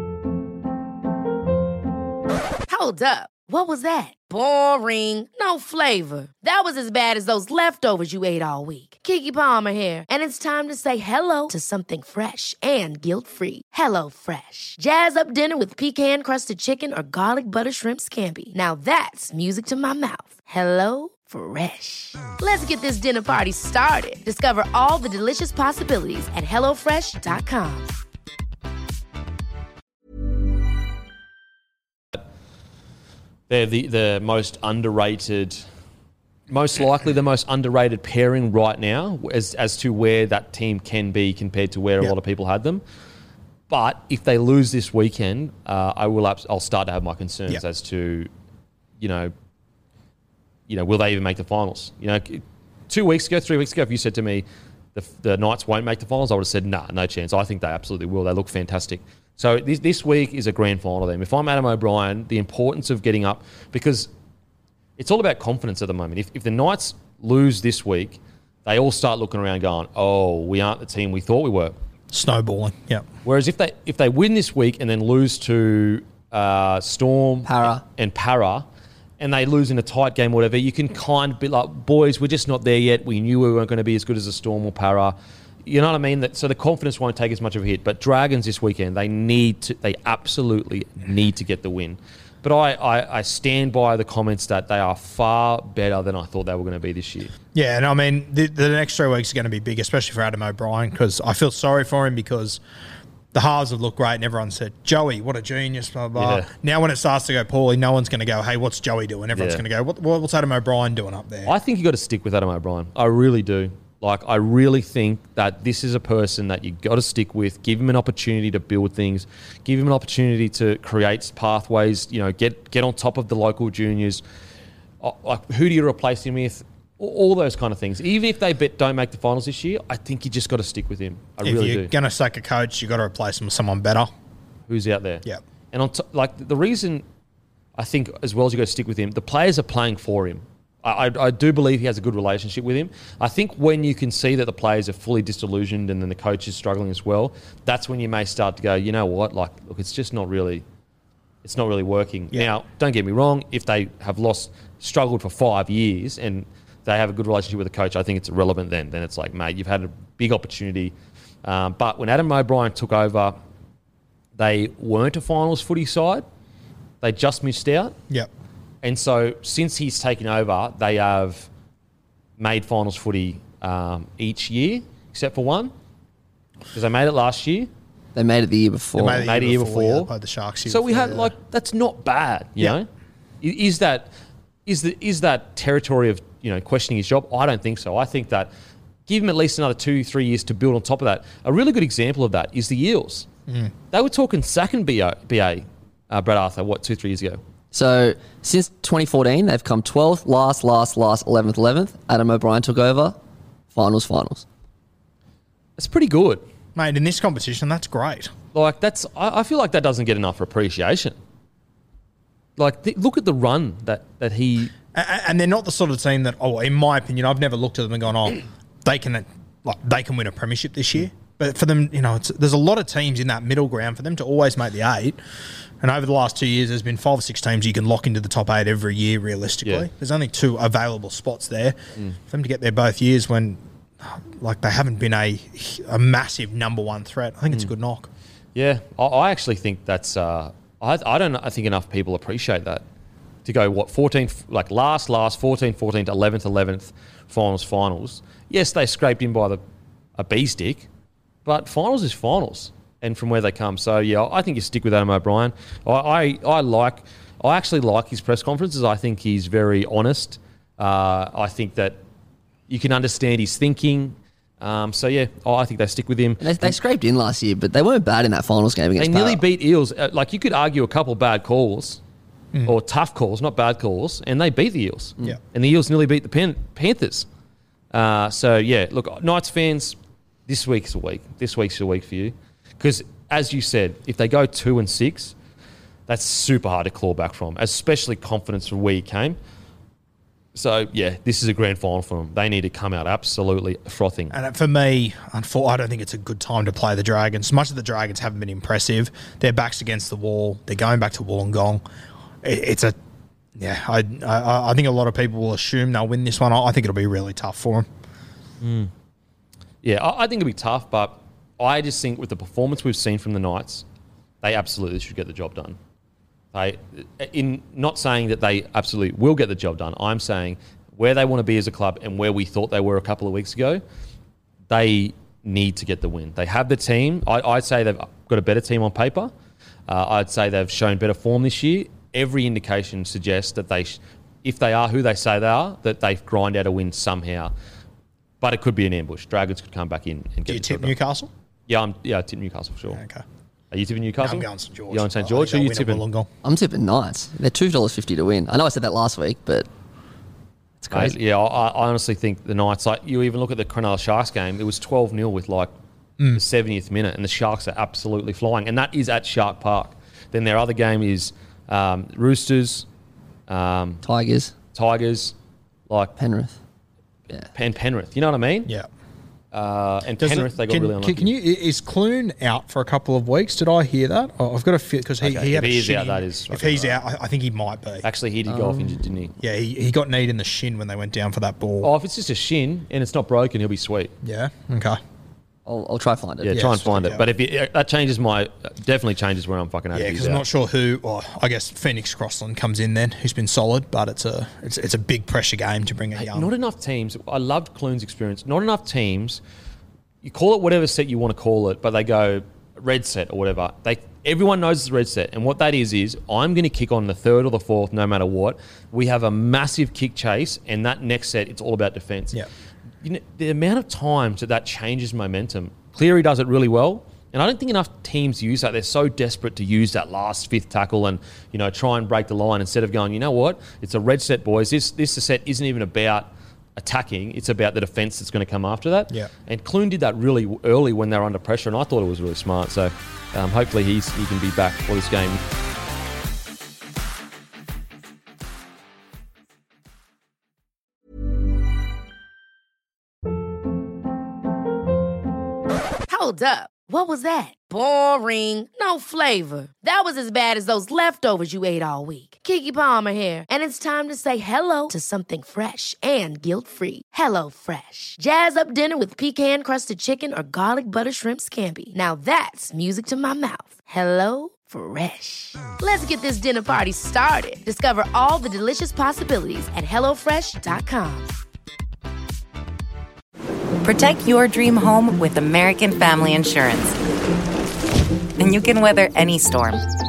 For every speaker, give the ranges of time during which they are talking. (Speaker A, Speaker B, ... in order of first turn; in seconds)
Speaker A: 2.7-27.9, 446.1-471.3
Speaker B: 33.5-35.6, 36.5-42.8, 43.7-48.3, 49.0-49.3, 50.7-64.1, 65.0-71.8, 73.2-78.6, 79.2-85.1, 85.7-97.3, 106.2-106.5, 109.3-109.6, 111.5-124.2, 125.0-131.9, 134.7-137.0, 137.8-150.6, 151.4-163.3, 164.4-166.2, 167.0-167.9, 168.8-171.5, 172.4-175.7, 176.7-177.7, 179.1-180.1, 180.7-182.9, 183.4-184.1, 184.7-188.5, 189.1-193.3, 193.9-197.4, 205.8-206.4, 208.5-211.2, 212.6-214.7, 238.5-242.8, 243.4-249.6, 250.2-250.9, 251.4-262.0, 262.7-266.8, 269.0-272.0, 272.6-277.3, 277.9-285.3, 286.1-289.4, 290.5-294.3, 308.6-308.9, 309.8-313.8, 314.4-315.8, 316.5-323.8, 324.7-329.3, 329.9-337.5, 338.4-340.9, 341.7-343.0, 343.7-346.0, 350.9-355.7, 356.3-362.9, 363.5-364.0, 364.7-365.3, 367.5-368.7, 369.5-371.3, 375.2-377.0, 378.0-379.3, 381.8-384.1, 386.4-390.4, 396.1-399.4, 400.2-412.4, 413.0-435.4
Speaker C: 72.1-73.0, 97.5-102.6, 103.3-111.5, 131.4-134.1, 179.0-181.3, 206.7-208.3, 214.9-225.2, 225.8-238.1, 294.3-301.8, 302.4-302.9, 303.6-307.9, 340.5-341.3, 342.9-343.2, 344.2-346.3, 370.2-378.0, 379.4-381.9, 384.2-385.0, 386.5-387.2, 389.9-396.5
Speaker D: 77.4-77.8, 178.1-179.3, 197.7-203.2, 203.7-204.4, 266.4-269.4, 346.4-349.7, 350.8-351.1, 364.0-364.5, 366.2-366.6, 385.6-386.7
Speaker E: 473.8-477.0, 478.4-479.8